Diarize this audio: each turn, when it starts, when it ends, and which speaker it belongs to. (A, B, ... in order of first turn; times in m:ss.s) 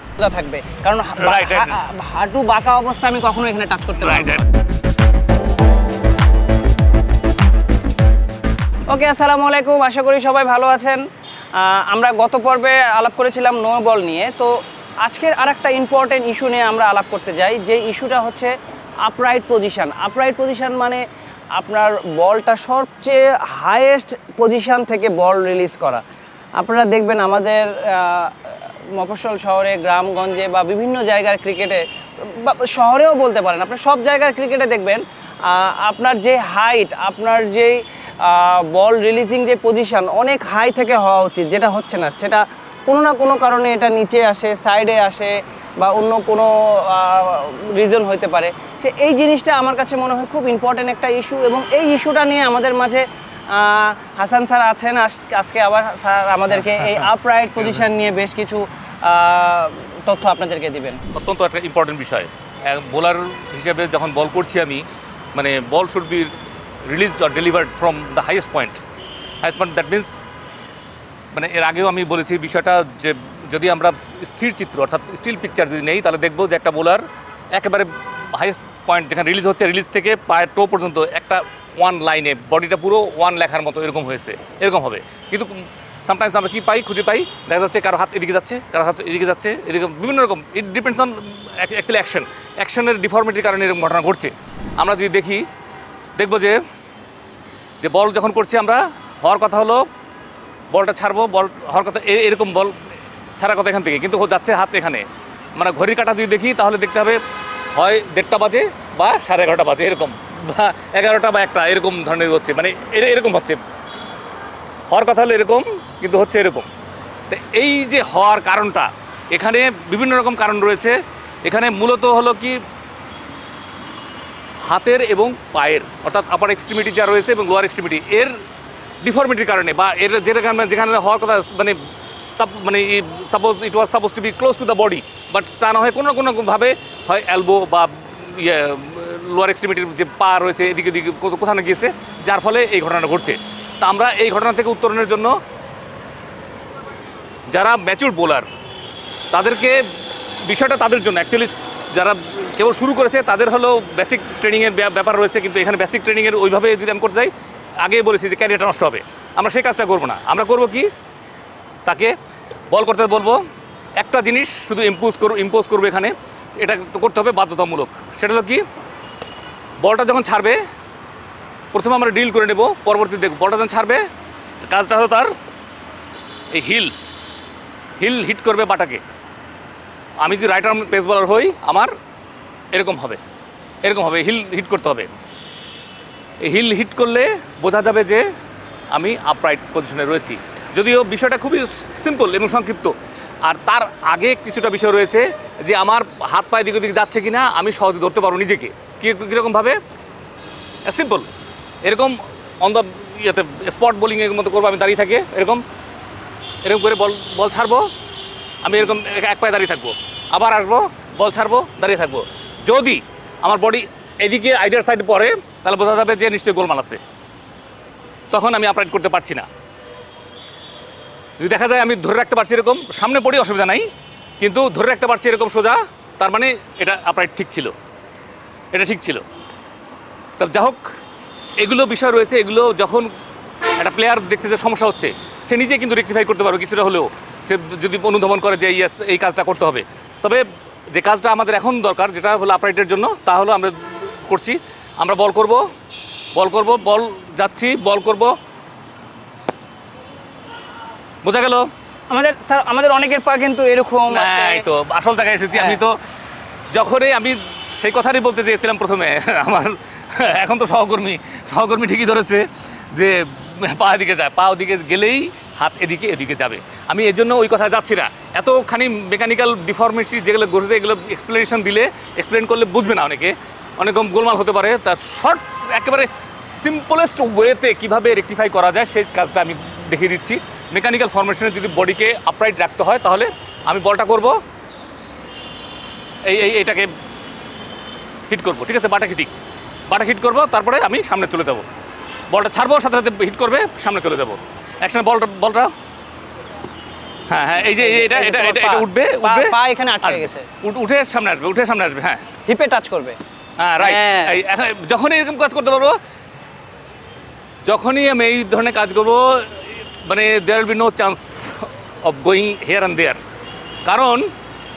0:00.2-0:04.5 A
0:01.2-0:01.8 B
0:04.0-0:04.5 B
0:08.9-0:11.0 A
0:11.6-0:21.0 A
0:21.6-0:26.0 A
0:26.6-1:01.0 A
1:01.1-1:06.3 B
1:06.9-1:08.8 B
1:09.4-1:10.2 B
1:11.3-1:35.4 B
1:36.2-1:36.6 B
1:37.8-1:39.9 B
1:40.7-1:42.8 B
1:43.4-1:45.0 B
1:45.6-1:47.2 B
1:47.8-1:53.6 B
1:54.9-1:56.7 B
1:57.3-2:02.6 B
2:04.6-2:08.4 B
2:09.0-2:25.4 B
2:27.5-2:28.5 B
2:29.3-2:29.9 B
2:30.4-2:40.9 B
2:41.9-2:42.2 B
2:42.7-2:43.4 B
2:44.0-2:48.6 B
2:49.8-2:50.6 B
2:51.7-2:54.0 B
2:54.7-2:55.3 B
2:56.5-2:56.9 B
2:58.0-2:59.0 B
3:00.2-3:01.9 B
3:02.7-3:03.2 B
3:03.8-3:05.1 B
3:06.4-3:08.3 B
3:08.9-3:19.8 B
3:20.9-3:21.3 B
3:21.8-3:25.6 B
3:26.6-3:27.9 B
3:28.6-3:37.0 B
3:38.3-3:39.5 B
3:41.4-3:43.9 B
3:44.4-3:47.7 B
3:48.7-3:49.2 B
3:50.4-3:50.9 B
3:51.6-3:53.1 B
3:53.8-4:05.7 B
4:06.4-4:08.4 B
4:11.2-4:11.7 B
4:12.1-4:14.7 A
4:14.1-4:16.0 B
4:15.5-4:15.8 A
4:16.7-4:44.4 B
4:46.2-4:46.9 B
4:48.3-4:49.3 B
4:49.9-4:51.7 B
4:52.3-4:55.7 B
4:57.3-5:02.2 B
4:57.6-5:00.5 A
5:02.5-5:03.2 A
5:03.6-5:06.0 B
5:03.8-5:04.4 A
5:07.6-5:13.2 B
5:13.9-5:14.3 B